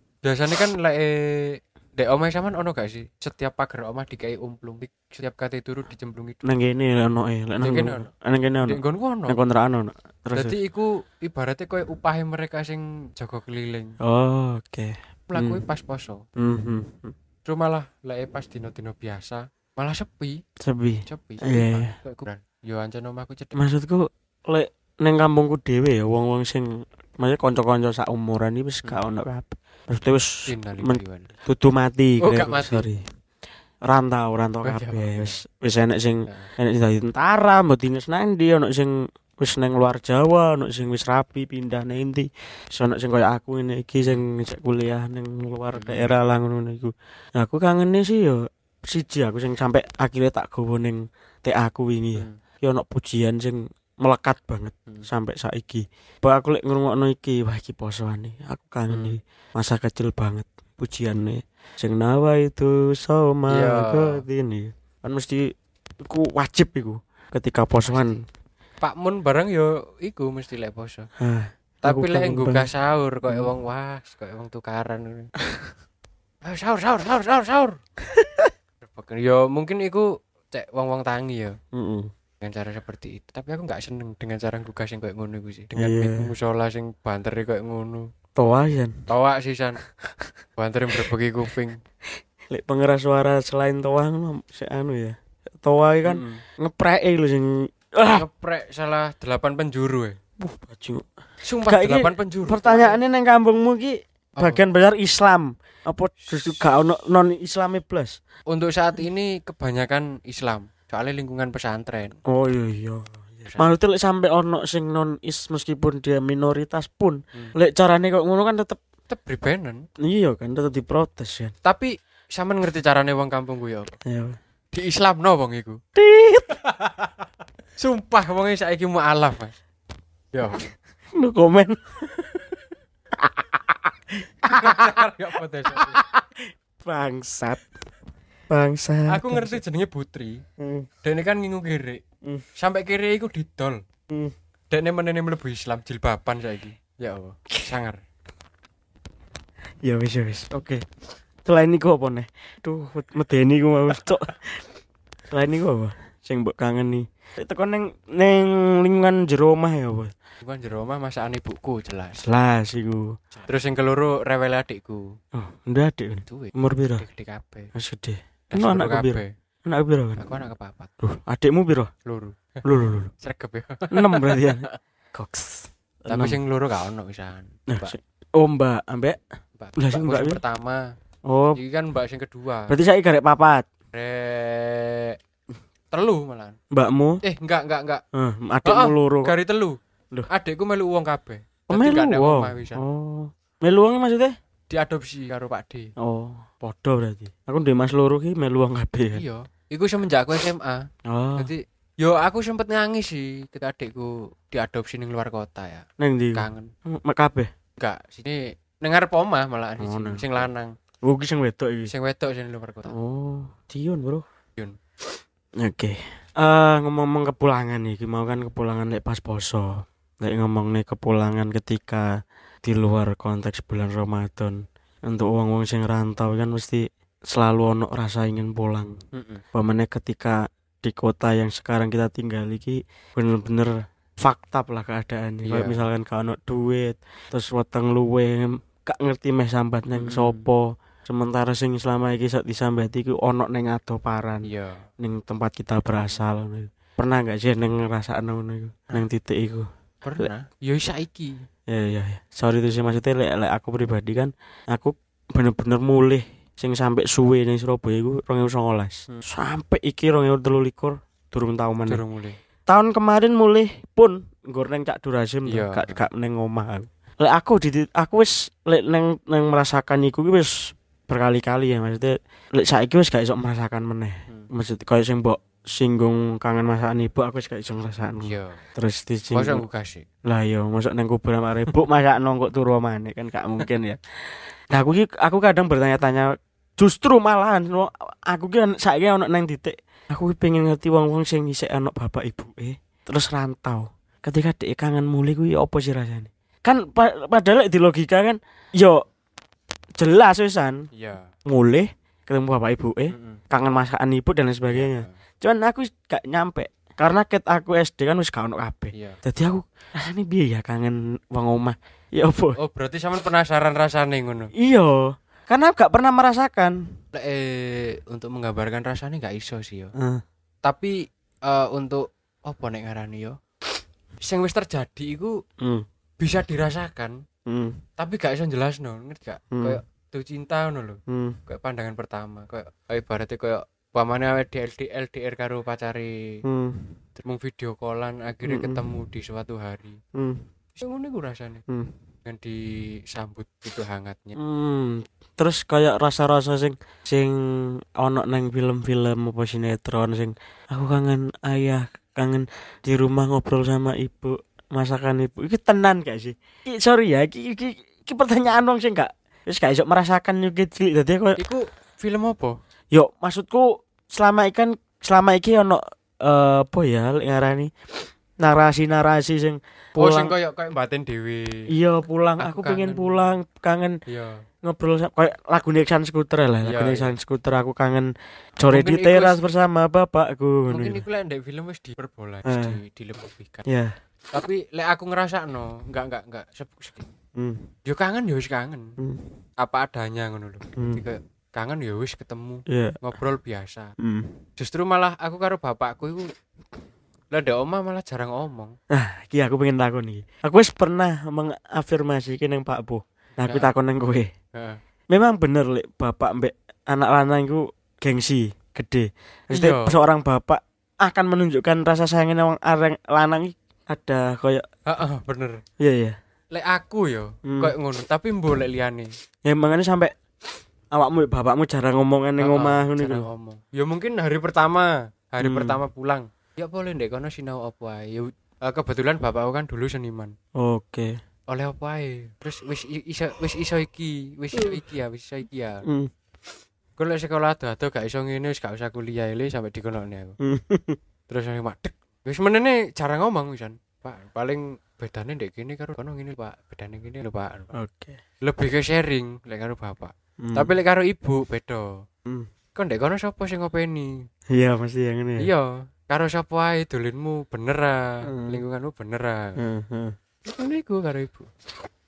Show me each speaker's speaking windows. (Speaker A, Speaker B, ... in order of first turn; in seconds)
Speaker A: 0.2-6.4, 7.6-8.1, 8.6-9.4, 10.3-13.9, 15.3-16.2, 17.4-20.4, 21.1-23.6, 30.5-31.3, 32.2-32.9, 34.6-35.4, 45.7-46.1, 58.9-59.2, 63.5-64.2, 68.8-71.1, 71.8-75.3, 76.4-77.8, 78.8-81.6, 82.4-88.1, 89.1-89.8, 90.6-91.8, 96.0-96.4, 98.1-100.2, 101.4-103.0, 104.3-104.6, 106.2-106.6, 108.5-112.2, 113.4-113.7, 119.1-119.8, 121.6-124.0, 124.7-125.8, 126.5-127.2, 127.8-129.6, 130.3-130.7, 134.4-136.0, 139.1-140.4, 141.0-142.0, 142.6-143.8, 144.7-148.0, 160.4-162.2, 163.3-165.0, 166.2-167.7, 168.5-169.3, 170.2-170.9, 172.1-174.8, 176.1-177.9, 179.6-180.8, 181.5-182.8, 183.9-185.2, 185.9-186.6, 187.2-188.0, 188.6-189.8, 190.3-192.8, 194.7-195.9, 199.1-200.8, 201.4-206.7, 207.8-210.7, 211.9-212.9, 229.1-229.4, 235.4-235.8, 239.9-240.5, 244.4-244.8, 250.0-251.4, 261.9-262.4, 265.4-266.0, 278.2-278.6, 279.3-280.1, 300.9-301.3, 303.1-303.4, 304.7-305.2, 308.9-309.2, 312.6-314.5, 317.1-319.9, 320.6-320.9, 321.4-323.4, 324.2-325.3, 326.2-327.2, 328.0-336.1, 337.2-340.0, 340.8-341.6, 342.2-344.4, 361.4-362.6, 370.0-371.6, 372.4-373.2, 374.1-374.4, 376.6-377.1, 378.7-379.4, 380.7-383.6, 384.3-387.1, 387.9-388.9, 389.6-393.9, 394.6-396.3, 397.3-398.8, 403.4-403.7, 409.5-409.9, 414.9-415.6, 416.5-419.1, 422.4-430.3, 431.5-435.8, 437.0-440.4, 441.3-447.7, 448.4-451.9, 452.8-454.1, 455.4-459.6, 460.4-461.5
Speaker B: 6.4-10.6, 14.0-15.6, 16.4-17.1, 20.6-21.9, 23.5-33.0, 33.8-68.2, 71.2-72.7, 78.0-78.5, 81.7-82.1, 85.8-86.3, 88.3-89.0, 92.5-98.2, 100.4-101.0, 101.7-108.2, 112.2-118.8, 120.0-121.5, 124.0-124.4, 126.0-126.5, 131.1-132.6, 133.1-135.1, 135.7-137.6, 138.5-139.6, 140.6-140.9, 149.8-150.8, 151.4-154.7, 155.3-160.1, 162.2-163.2, 165.3-167.0, 167.7-170.3, 171.0-171.9, 172.6-173.1, 173.9-176.4, 177.7-179.2, 179.8-180.4, 181.2-181.6, 182.7-183.7, 186.7-187.2, 188.1-189.3, 191.7-194.3, 196.0-199.2, 201.1-201.5, 206.0-207.5, 209.8-210.2, 211.0-211.9, 212.9-214.2, 215.6-229.0, 229.5-244.5, 245.0-249.7, 251.7-262.0, 262.7-279.6, 280.2-284.0, 284.7-299.0, 300.0-300.9, 301.4-312.6, 314.6-316.8, 320.0-320.2, 325.6-325.9, 327.5-327.8, 329.5-329.8, 331.1-331.4, 336.4-336.9, 338.4-338.9, 340.1-340.4, 344.4-361.4, 362.9-367.7, 368.4-370.3, 371.7-374.0, 374.6-381.0, 382.4-382.8, 383.6-383.9, 387.4-387.7, 389.0-389.3, 390.8-391.0, 392.7-393.0, 394.0-394.4, 398.9-404.3, 405.1-414.6, 415.8-416.2, 417.4-417.7, 419.4-420.1, 420.9-423.2, 425.4-425.8, 430.6-431.1, 434.6-434.8, 435.9-436.1, 440.4-441.0, 447.7-448.2, 450.4-450.7, 454.5-455.5, 458.3-458.6, 459.6-460.1